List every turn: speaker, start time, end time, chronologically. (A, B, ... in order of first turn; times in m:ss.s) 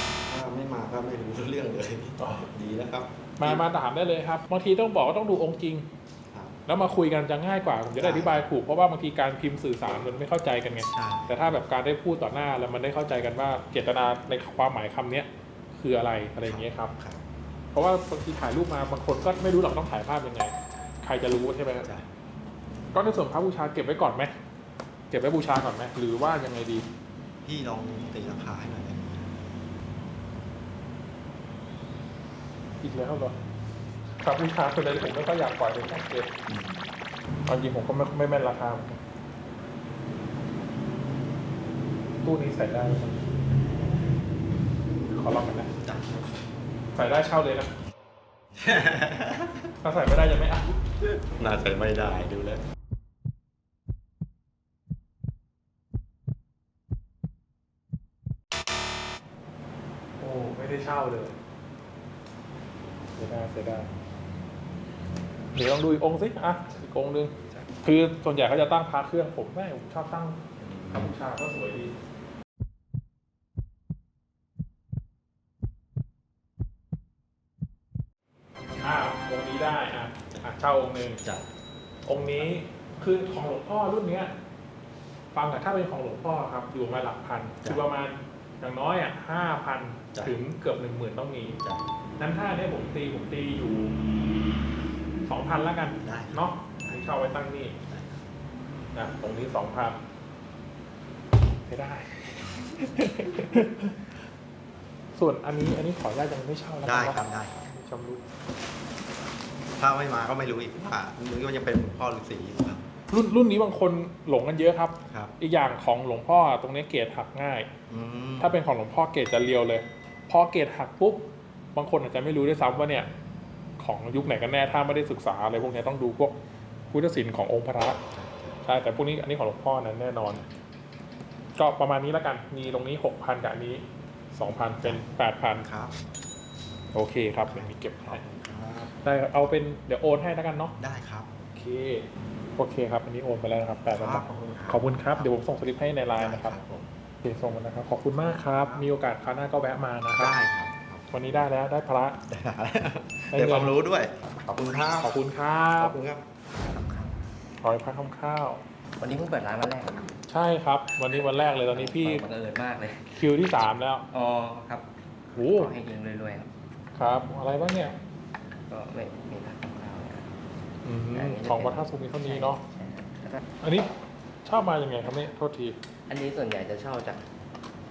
0:00.2-0:03.6 A
0:02.2-0:02.5 B
0:03.4-0:05.9 B
0:06.3-0:06.6 A
0:06.7-0:16.9 B
0:08.0-0:08.5 A
0:10.9-0:11.5 A
0:16.4-0:17.2 A
0:17.7-0:21.9 B
0:22.9-0:24.3 B
0:25.1-0:26.9 B
0:27.4-0:29.4 A
0:32.8-0:33.4 B
0:34.2-0:36.3 B
0:36.5-0:36.8 A
0:37.5-0:39.0 B
0:42.2-0:43.2 B
0:45.1-0:45.7 B
0:45.8-0:46.2 A
0:47.0-0:47.7 B
0:48.6-0:49.6 A
0:49.8-0:50.7 B
0:51.3-0:52.6 A
1:00.2-1:01.4 B
1:03.2-1:03.9 B
1:05.5-1:10.4 B
1:06.6-1:07.8 A
1:10.6-1:11.1 A
1:10.9-1:11.9 B
1:18.8-1:21.2 B
1:21.2-1:21.5 A
1:22.0-1:24.3 B
1:22.1-1:22.5 A
1:25.3-1:31.6 B
1:32.2-1:34.0 B
1:35.3-1:37.8 B
1:36.0-1:38.2 A
1:38.9-1:40.0 B
1:41.7-1:44.0 B
1:45.1-1:48.2 B
1:46.8-1:47.6 A
1:49.8-1:52.8 A
1:53.1-1:57.7 B
1:57.9-1:58.6 A
1:58.4-2:03.1 B
2:03.8-2:06.4 B
2:06.9-2:08.0 B
2:08.1-2:08.6 A
2:08.6-2:10.5 B
2:11.6-2:13.8 B
2:14.3-2:15.6 B
2:15.6-2:15.9 A
2:16.9-2:18.2 B
2:17.4-2:18.9 A
2:19.0-2:20.8 B
2:20.8-2:21.3 A
2:21.5-2:26.6 B
2:23.9-2:25.3 A
2:26.1-2:26.9 A
2:27.2-2:30.4 B
2:28.2-2:28.9 A
2:30.1-2:31.4 A
2:31.1-2:32.2 B
2:32.3-2:35.1 A
2:33.3-2:33.8 B
2:35.0-2:36.0 B
2:35.7-2:36.2 A
2:36.6-2:37.2 C
2:37.6-2:38.6 B
2:39.0-2:40.2 C
2:40.3-2:42.2 B
2:41.0-2:43.3 C
2:43.1-2:44.0 B
2:44.1-2:46.5 C
2:45.4-2:45.7 B
2:47.0-2:48.0 B
2:48.7-2:50.3 C
2:50.8-2:52.6 B
2:51.1-2:53.4 C
2:53.6-2:53.9 B
2:54.4-2:55.8 B
2:56.1-2:57.2 C